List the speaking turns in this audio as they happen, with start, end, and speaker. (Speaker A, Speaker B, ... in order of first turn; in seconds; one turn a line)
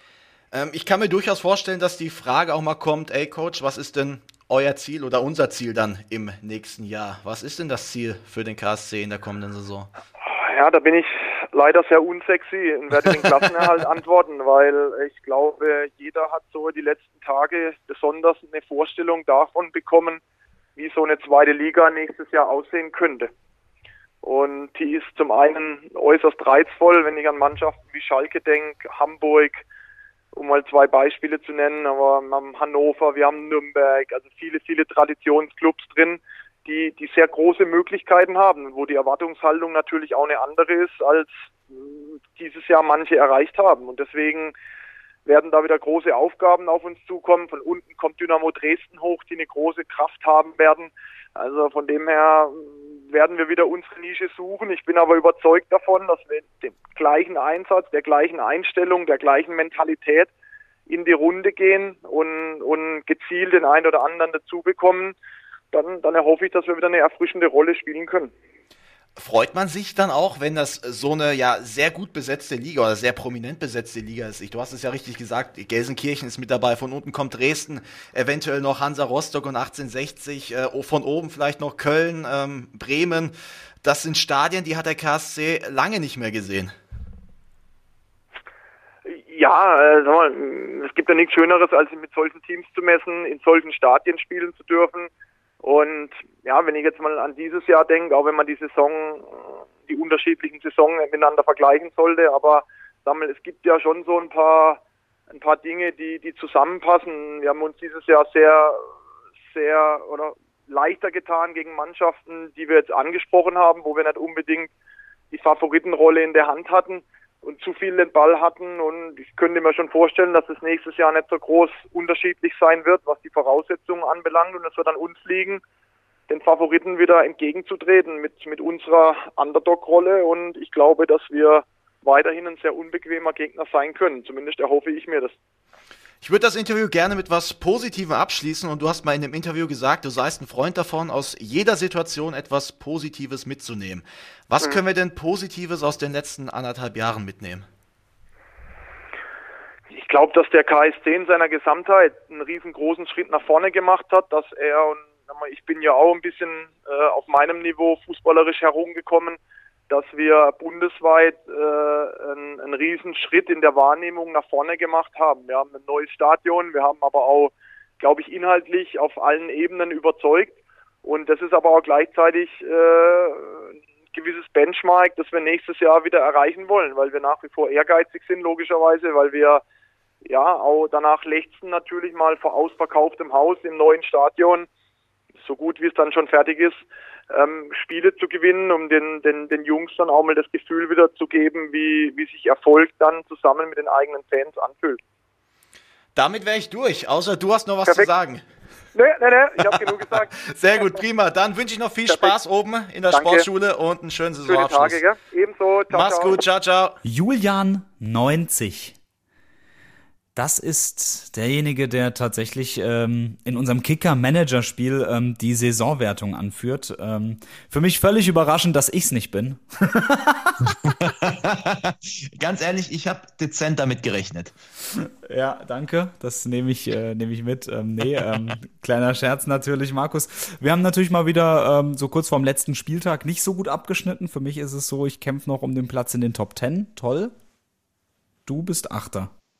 Speaker A: 0.5-9.9
Speaker B: 10.2-20.2
Speaker B: 20.8-23.3
Speaker B: 24.2-29.6
Speaker B: 30.3-44.5
Speaker B: 45.2-60.3
Speaker B: 60.9-65.1
Speaker B: 65.7-68.3
Speaker A: 69.2-86.7
Speaker B: 89.0-95.1
Speaker B: 95.6-108.8
Speaker B: 109.5-114.7
Speaker B: 115.3-125.6
Speaker B: 126.3-135.3
Speaker A: 136.2-147.7
Speaker B: 149.9-159.4
Speaker B: 159.9-179.6
Speaker B: 180.2-184.7
Speaker B: 185.4-195.0
Speaker A: 196.2-198.4
Speaker B: 198.9-200.4
Speaker A: 199.7-205.0
Speaker B: 203.1-203.4
Speaker B: 204.5-206.4
Speaker A: 205.9-207.0
Speaker C: 207.0-208.9
Speaker C: 210.3-220.7
Speaker D: 220.8-224.5
Speaker C: 225.2-237.3
Speaker C: 238.4-239.3